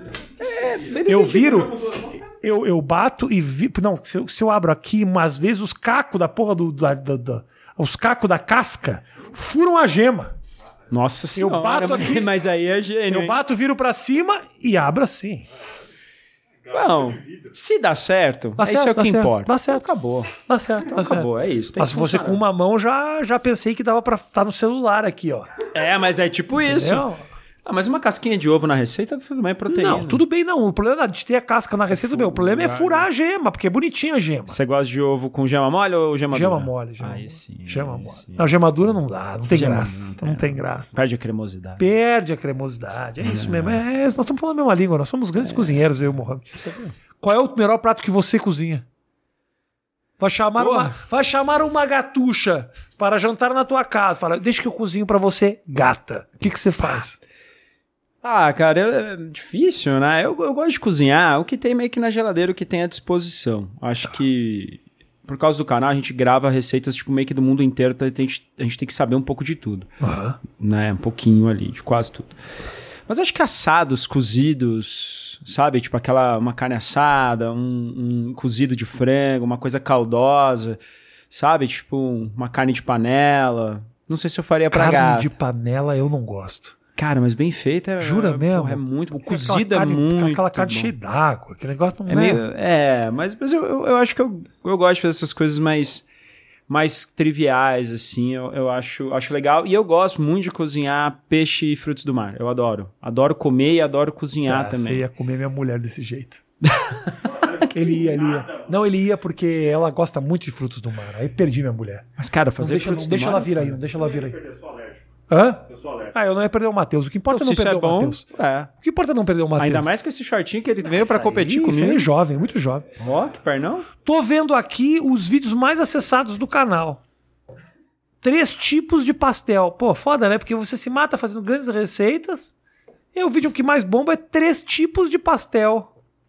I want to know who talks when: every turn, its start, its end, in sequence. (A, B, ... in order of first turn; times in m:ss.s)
0:00.4-0:01.8 A
0:01.0-0:01.9 B
0:02.4-0:10.3 B
0:10.9-0:13.4 A
0:11.3-0:12.4 B
0:13.1-0:15.4 B
0:16.7-0:17.4 C
0:16.7-0:22.4 A
0:18.6-0:25.6 B
0:25.7-0:27.0 A
0:26.5-0:27.2 B
0:27.6-0:30.2 A
0:29.7-0:34.6 B
0:31.9-0:33.1 A
0:34.5-0:38.5 A
0:36.3-0:40.9 B
0:39.5-0:41.9 A
0:41.8-0:46.5 B
0:43.2-0:43.8 A
0:45.4-0:45.8 A
0:46.5-0:46.9 A
0:47.2-0:48.8 B
0:50.2-0:57.2 B
0:50.6-0:50.9 A
0:58.2-1:09.9 A
1:10.0-1:10.4 B
1:10.5-1:12.3 A
1:13.1-1:25.3 A
1:24.7-1:26.8 B
1:27.0-1:30.9 A
1:28.0-1:32.4 B
1:32.1-1:36.1 A
1:36.7-1:45.0 A
1:44.4-1:46.4 B
1:46.6-1:47.0 A
1:47.3-1:48.8 C
1:47.6-1:52.1 B
1:52.2-1:53.8 A
1:52.6-1:54.4 B
1:53.9-1:55.0 C
1:55.3-1:58.2 B
1:55.7-1:56.1 C
1:57.3-1:58.7 A
1:58.8-1:59.9 B
1:59.6-2:02.1 A
2:00.9-2:02.9 B
2:03.0-2:03.9 A
2:04.0-2:07.0 B
2:08.2-2:12.5 B
2:13.1-2:15.9 B